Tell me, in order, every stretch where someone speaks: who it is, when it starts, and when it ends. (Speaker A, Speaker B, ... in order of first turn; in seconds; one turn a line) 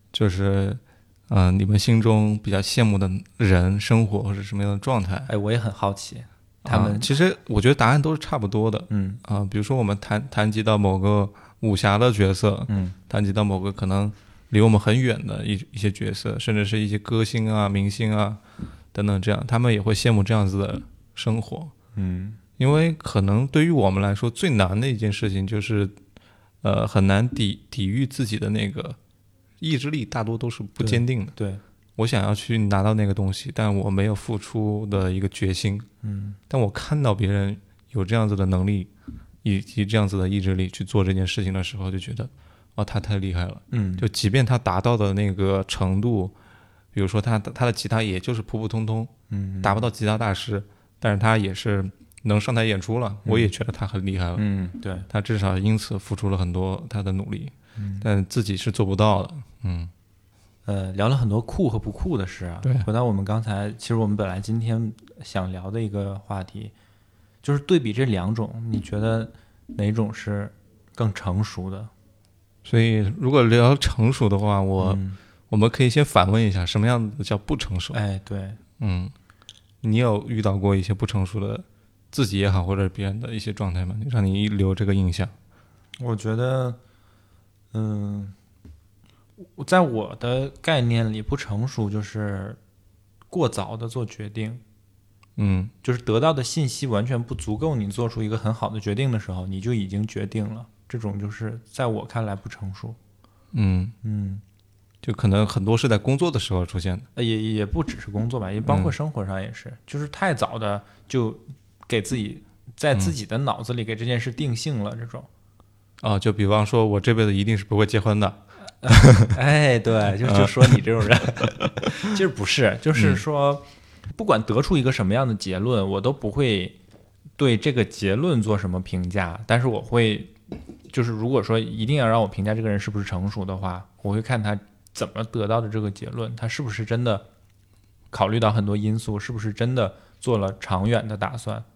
Speaker A: 0.1-5.3
Speaker B: 5.3-7.1
Speaker A: 6.6-18.4
Speaker B: 8.9-9.2
Speaker B: 12.7-12.9
Speaker A: 18.9-21.7
Speaker B: 21.9-22.4
Speaker A: 22.6-25.9
Speaker A: 26.6-29.0
Speaker A: 29.6-31.3
Speaker B: 30.8-31.6
Speaker A: 32.0-35.9
Speaker B: 36.0-36.4
Speaker A: 36.5-38.9
Speaker A: 39.4-46.3
Speaker B: 43.7-44.1
Speaker A: 46.9-54.4
Speaker B: 49.3-49.9
Speaker B: 53.2-53.5
Speaker B: 54.4-55.1
Speaker A: 55.1-59.9
Speaker B: 57.8-58.1
Speaker B: 60.6-66.7
Speaker B: 67.4-71.9
Speaker A: 72.6-78.0
Speaker B: 74.8-75.2
Speaker B: 77.9-78.6
Speaker A: 78.8-79.1
Speaker A: 79.8-85.3
Speaker B: 86.0-86.8
Speaker B: 87.7-88.3
Speaker B: 89.4-92.6
Speaker B: 93.3-94.6
Speaker A: 95.4-95.7
Speaker B: 95.8-103.0
Speaker A: 103.5-104.0
Speaker B: 104.0-104.4
Speaker A: 105.0-107.1
Speaker B: 107.1-115.3
Speaker A: 108.7-108.9
Speaker A: 116.0-119.3
Speaker B: 118.8-126.8
Speaker A: 120.2-120.8
Speaker A: 121.4-121.8
Speaker A: 122.9-123.2
Speaker B: 127.4-130.3
Speaker B: 130.9-137.2
Speaker B: 138.1-141.6